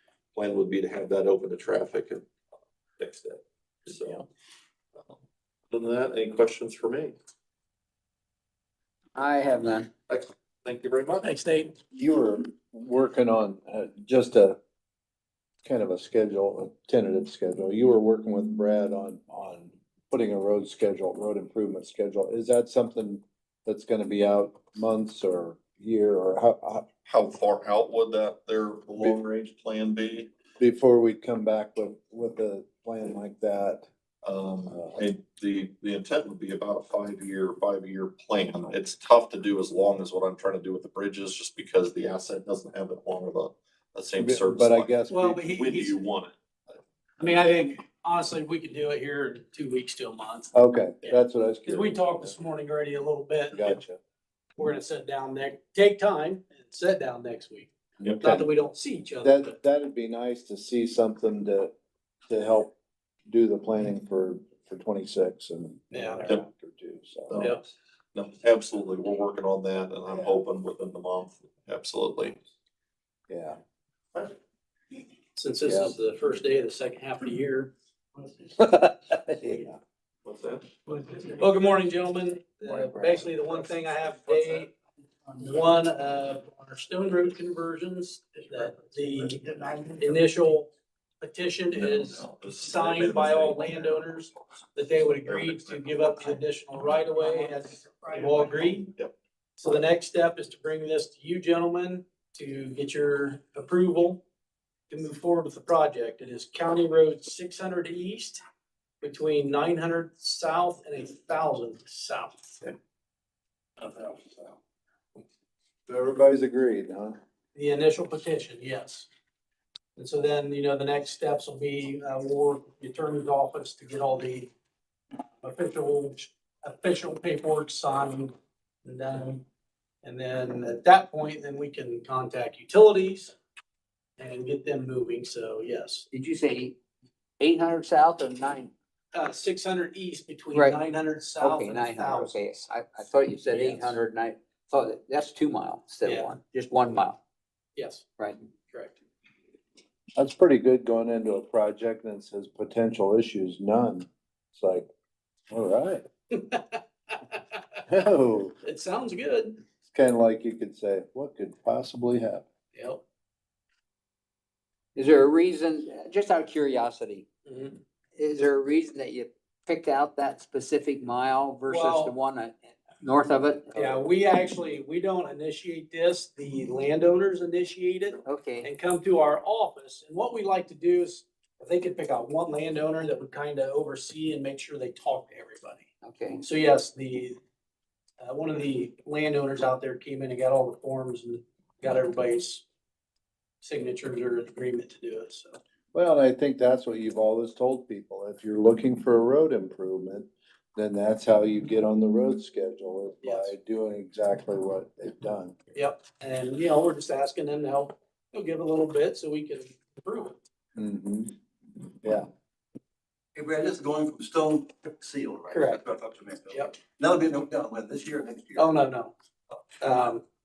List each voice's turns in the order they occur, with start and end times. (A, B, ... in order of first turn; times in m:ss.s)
0:00.4-0:02.3 A
0:03.0-0:04.3 A
0:05.7-0:07.2 A
0:09.2-0:09.9 B
0:10.1-0:11.3 A
0:11.2-0:11.7 C
0:11.9-0:14.6 D
0:15.6-0:26.9 D
0:27.0-0:30.3 A
0:30.6-0:33.9 D
0:34.2-0:44.9 A
0:34.7-0:35.0 D
0:44.2-0:45.5 D
0:45.1-0:46.0 C
0:45.5-0:46.4 A
0:47.2-0:53.7 C
0:50.5-0:52.4 D
0:53.5-0:54.0 D
0:54.6-0:59.6 C
0:58.0-0:58.5 D
0:59.2-1:01.7 D
1:02.3-1:02.7 D
1:03.3-1:07.4 D
1:05.9-1:06.3 C
1:07.3-1:12.4 A
1:07.4-1:07.6 C
1:13.3-1:13.6 D
1:15.4-1:17.7 C
1:15.7-1:15.9 D
1:20.2-1:20.8 A
1:20.9-1:24.7 C
1:24.2-1:24.7 A
1:25.3-1:30.7 C
1:31.2-1:38.9 C
1:31.7-1:34.4 A
1:35.3-1:35.8 A
1:39.6-1:44.2 C
1:44.9-1:48.4 C
1:49.0-1:52.7 C
1:53.8-1:54.5 C
1:55.9-1:57.2 D
1:57.6-1:59.1 C
2:00.0-2:04.5 C
2:05.4-2:08.3 C
2:08.8-2:09.4 C
2:10.0-2:13.4 C
2:14.2-2:16.1 C
2:16.1-2:16.7 B
2:17.4-2:18.7 B
2:19.1-2:22.7 C
2:20.5-2:20.8 B
2:21.4-2:27.2 B
2:23.5-2:24.0 C
2:26.0-2:26.3 C
2:27.8-2:28.1 C
2:28.7-2:29.0 C
2:30.2-2:34.9 D
2:35.5-2:36.1 D
2:36.3-2:37.6 C
2:37.9-2:38.6 D
2:38.6-2:39.6 C
2:39.9-2:42.5 D
2:42.7-2:43.0 C
2:45.0-2:47.3 B
2:47.5-2:47.8 C
2:48.2-2:54.0 B
2:51.7-2:52.1 C
2:53.8-3:05.9 C
2:58.3-2:58.7 B
3:06.1-3:06.4 B
3:06.4-3:07.4 C
3:08.2-3:12.6 C
3:13.6-3:15.6 C
3:15.9-3:25.6 D
3:23.2-3:23.5 C
3:25.7-3:30.4 C
3:30.8-3:31.3 D
3:33.4-3:38.7 E
3:35.5-3:35.8 C
3:36.5-3:36.8 C
3:38.6-3:39.1 C
3:39.8-3:40.2 C